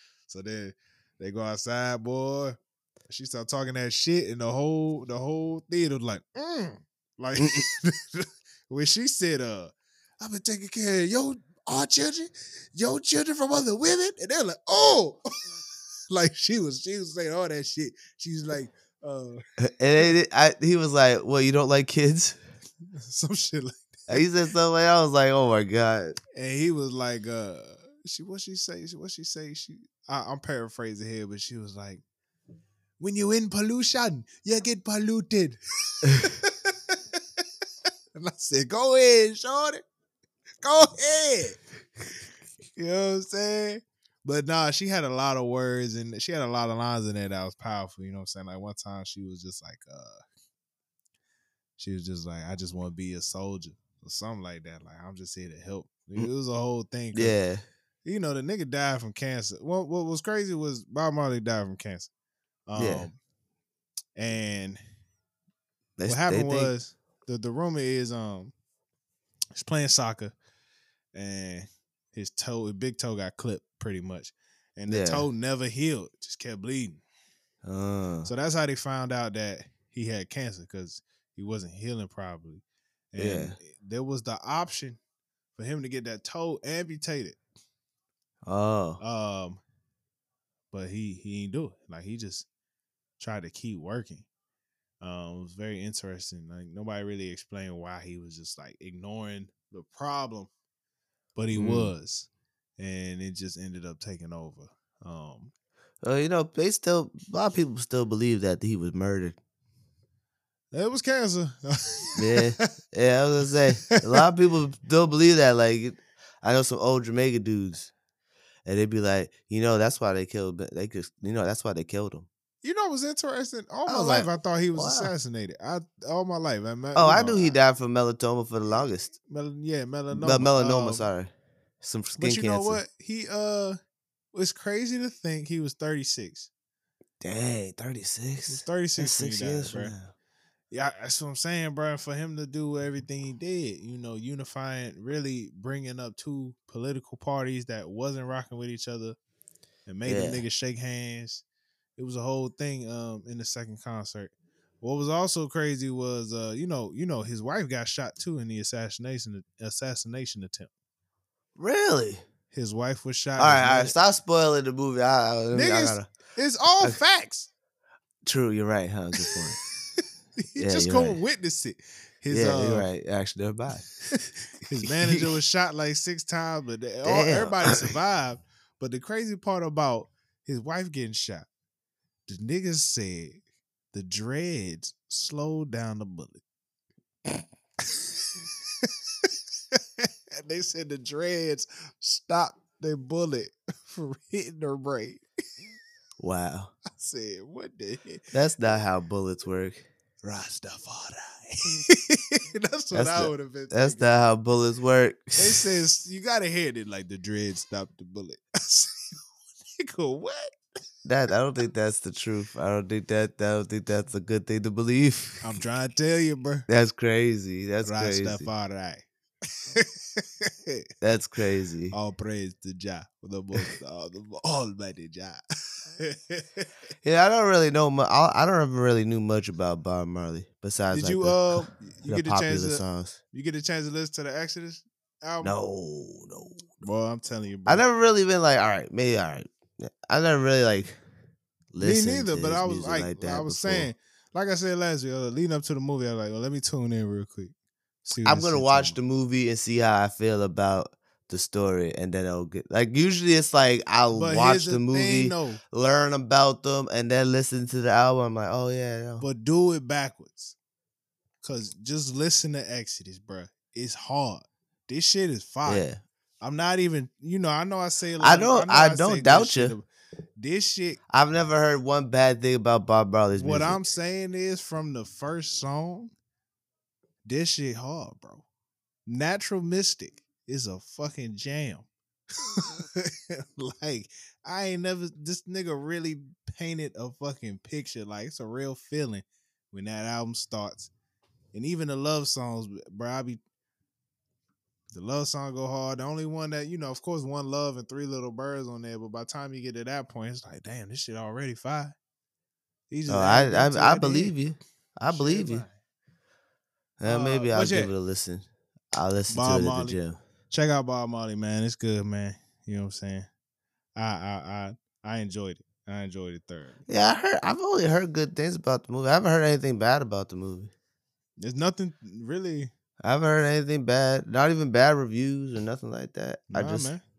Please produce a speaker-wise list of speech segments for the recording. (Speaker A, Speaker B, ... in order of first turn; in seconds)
Speaker A: 0.3-15.2, 16.1-19.4, 22.9-24.2, 26.4-32.0, 33.0-37.0, 38.1-39.8, 40.6-41.6, 42.8-50.2, 51.8-57.4, 58.0-62.1, 62.7-63.2, 64.2-64.8, 66.1-68.5, 69.5-70.3, 71.1-77.0, 78.2-85.0, 85.5-87.4, 89.0-89.6, 90.7-92.5, 93.2-94.2, 95.0-100.5, 101.3-105.5, 110.7-112.6, 113.9-114.2, 122.6-127.5, 129.3-131.1, 132.2-133.8, 134.3-136.5, 138.5-139.9, 140.7-149.2, 149.9-151.4, 152.0-160.7, 162.5-163.9, 165.5-167.5, 169.9-172.9, 174.6-181.5, 182.3-183.4, 183.9-186.4, 187.9-195.2, 196.9-198.3, 200.2-204.1, 205.3-209.2, 209.8-210.5, 215.4-216.7, 217.8-219.1, 219.7-220.8, 221.9-225.4, 226.0-226.7, 230.9-235.5, 236.8-237.8, 241.8-247.5, 248.0-249.0, 254.1-255.6, 259.2-260.5, 261.4-265.9, 266.4-269.9, 270.4-271.0, 273.3-276.1, 277.2-278.4, 279.1-281.9, 282.4-290.9, 291.5-293.4, 294.9-301.9, 302.9-304.4, 305.1-305.7, 307.0-307.9, 309.3-310.0, 310.5-313.3, 313.9-316.8, 321.4-322.7, 326.5-327.0
Speaker B: 19.6-22.4, 24.1-26.2, 57.1-57.6, 62.8-63.1, 66.0-66.7, 74.9-75.2, 77.6-78.3, 83.2-83.5, 88.4-89.0, 101.5-101.9, 106.0-109.4, 112.2-117.9, 118.7-122.3, 123.9-125.1, 126.9-129.2, 130.1-131.3, 131.8-132.8, 137.2-140.1, 150.0-150.4, 161.6-162.2, 163.4-166.1, 168.2-169.6, 170.6-171.2, 172.3-173.9, 177.0-177.9, 196.2-196.7, 198.3-199.9, 202.9-205.6, 211.0-215.4, 216.7-218.5, 221.0-221.9, 227.0-233.2, 235.4-236.6, 237.7-241.0, 241.7-243.9, 248.2-259.2, 265.6-266.0, 268.2-269.7, 271.1-273.8, 303.1-305.6, 307.0-310.2, 316.9-320.7, 323.0-326.9